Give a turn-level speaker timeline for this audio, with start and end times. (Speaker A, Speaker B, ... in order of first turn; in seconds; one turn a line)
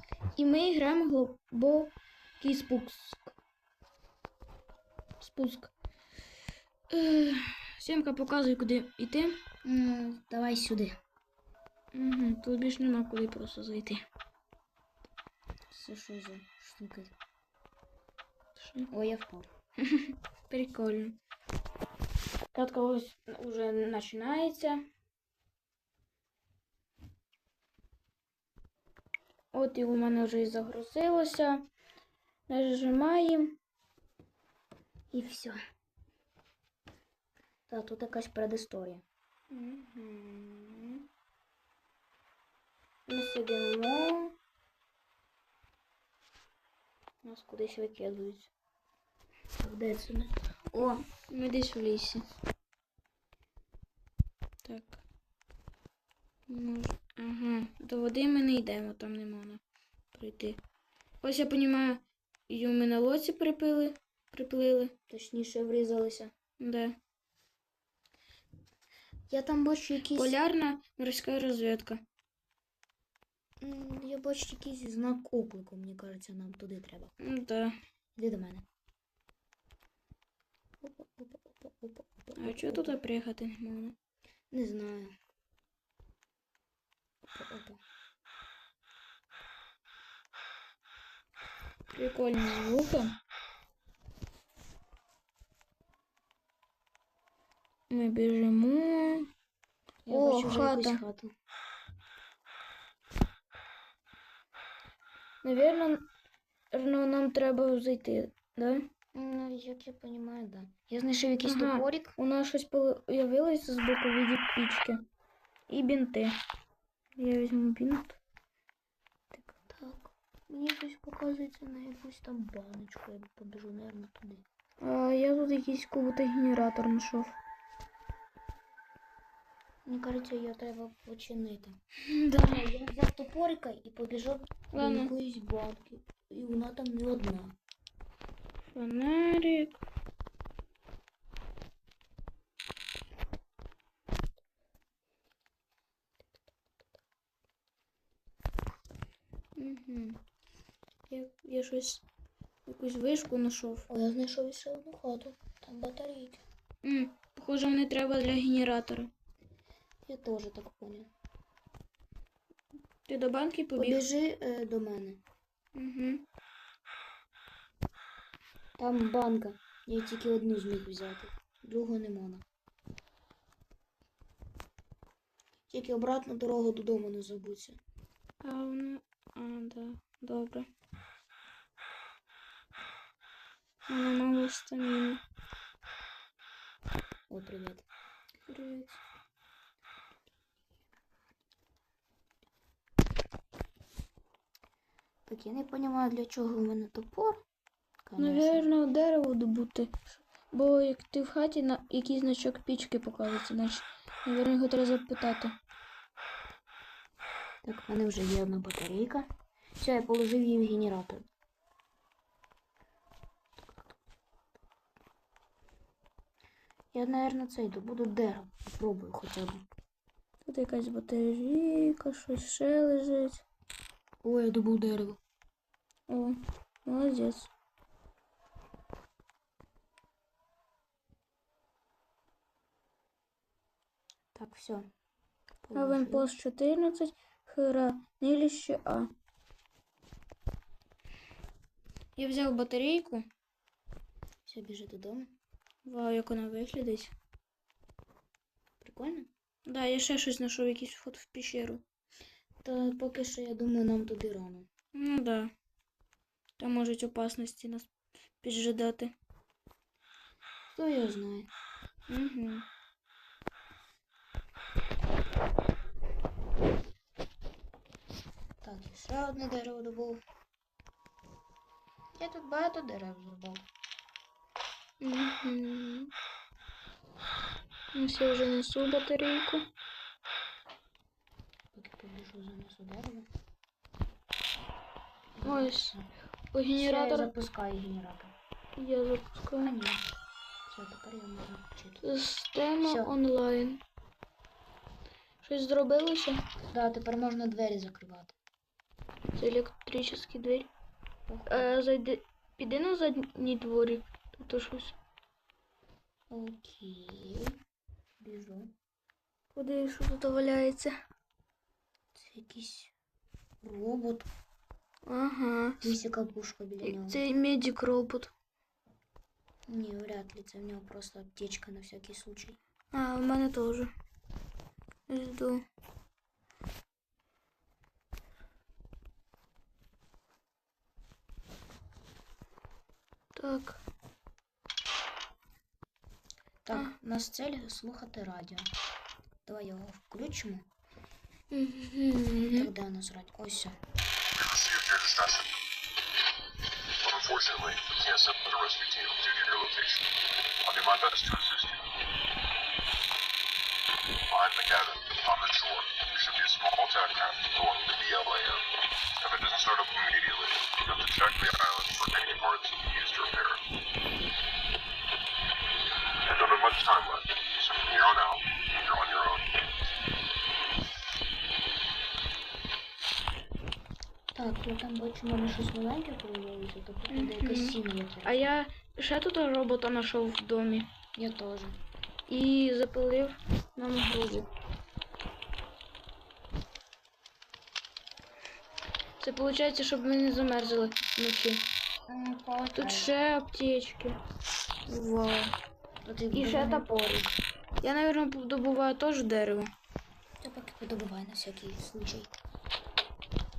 Speaker A: 0.3-3.3
Speaker A: 5.2-5.7
Speaker A: 6.9-9.4
Speaker B: 9.6-10.9
Speaker A: 11.9-14.0
Speaker B: 15.7-17.1
Speaker A: 18.6-18.9
Speaker B: 18.9-19.5
Speaker A: 19.8-21.1
Speaker A: 22.5-24.8
Speaker A: 29.5-31.6
Speaker A: 32.5-33.6
Speaker B: 35.1-35.5
Speaker B: 37.7-39.0
Speaker A: 39.5-41.0
Speaker A: 43.1-44.3
Speaker A: 47.2-48.5
Speaker B: 49.6-50.3
Speaker A: 50.7-52.2
Speaker A: 54.6-55.0
Speaker A: 56.5-59.6
Speaker A: 60.1-60.6
Speaker A: 61.2-64.9
Speaker B: 65.1-66.3
Speaker A: 66.6-67.0
Speaker B: 69.3-70.3
Speaker A: 70.1-72.0
Speaker B: 73.6-77.1
Speaker A: 77.2-77.8
Speaker B: 78.2-78.6
Speaker B: 80.8-83.0
Speaker A: 82.4-83.9
Speaker B: 84.5-85.1
Speaker B: 87.3-87.8
Speaker A: 91.9-93.1
Speaker A: 97.9-99.3
Speaker B: 100.0-101.3
Speaker A: 100.1-101.0
Speaker A: 105.4-106.0
Speaker A: 106.7-108.9
Speaker B: 109.1-112.2
Speaker A: 111.4-115.0
Speaker A: 115.7-116.4
Speaker A: 117.2-118.2
Speaker B: 119.3-124.4
Speaker A: 124.8-127.3
Speaker B: 129.8-131.8
Speaker A: 132.1-132.7
Speaker B: 132.4-137.5
Speaker A: 134.7-135.1
Speaker A: 138.7-139.8
Speaker A: 149.6-150.2
Speaker A: 151.1-152.0
Speaker A: 152.7-153.9
Speaker B: 153.9-156.4
Speaker A: 156.8-159.1
Speaker B: 160.1-161.1
Speaker A: 163.1-164.0
Speaker B: 163.8-165.2
Speaker A: 165.7-166.2
Speaker B: 168.8-172.4
Speaker B: 175.7-177.8
Speaker A: 178.4-180.7
Speaker A: 183.9-185.2
Speaker B: 187.3-187.9
Speaker A: 188.5-189.0
Speaker B: 195.2-197.4
Speaker B: 198.0-198.7
Speaker A: 198.2-205.5
Speaker B: 207.6-209.3
Speaker B: 209.8-211.2
Speaker B: 216.9-219.6
Speaker A: 220.4-223.4
Speaker B: 224.2-225.2
Speaker A: 226.1-227.5
Speaker B: 234.3-234.9
Speaker B: 235.6-236.3
Speaker A: 235.7-239.1
Speaker A: 242.2-243.2
Speaker B: 244.4-245.3
Speaker A: 245.8-247.1
Speaker B: 248.8-249.3
Speaker A: 249.7-251.8
Speaker B: 252.6-254.7
Speaker A: 254.9-255.5
Speaker A: 256.6-257.9
Speaker A: 258.4-259.1
Speaker B: 260.7-261.5
Speaker A: 262.1-262.6
Speaker B: 268.6-270.2
Speaker B: 272.2-273.6
Speaker A: 275.0-276.1
Speaker A: 277.9-279.6
Speaker B: 281.7-283.3
Speaker B: 285.4-286.0
Speaker A: 285.4-286.0
Speaker A: 286.5-287.3
Speaker B: 286.8-288.3
Speaker A: 288.8-289.7
Speaker B: 289.6-290.1
Speaker B: 290.7-292.0
Speaker A: 292.0-293.8
Speaker B: 292.8-293.1
Speaker A: 295.4-296.4
Speaker B: 296.7-298.4
Speaker A: 299.3-300.7
Speaker B: 301.3-301.7
Speaker A: 301.5-304.9
Speaker B: 306.3-307.6
Speaker B: 308.2-308.7
Speaker A: 309.5-310.9
Speaker B: 312.1-312.9
Speaker B: 313.6-314.3
Speaker A: 315.0-315.9
Speaker B: 315.8-317.2
Speaker A: 316.8-318.3
Speaker B: 319.7-322.6
Speaker A: 322.9-323.9
Speaker A: 325.1-325.6
Speaker A: 333.3-333.8
Speaker B: 336.6-338.7
Speaker B: 339.4-340.6
Speaker A: 341.5-342.7
Speaker B: 342.5-343.8
Speaker C: 344.3-345.6
Speaker C: 347.0-350.1
Speaker C: 350.6-351.9
Speaker C: 354.3-363.6
Speaker C: 366.2-369.5
Speaker B: 374.3-378.6
Speaker A: 377.1-380.9
Speaker B: 381.1-381.8
Speaker A: 382.3-384.5
Speaker A: 389.2-391.6
Speaker B: 392.1-393.1
Speaker A: 392.7-394.2
Speaker A: 394.9-395.5
Speaker B: 396.0-397.3
Speaker A: 396.3-397.2
Speaker A: 397.8-399.7
Speaker B: 400.4-402.3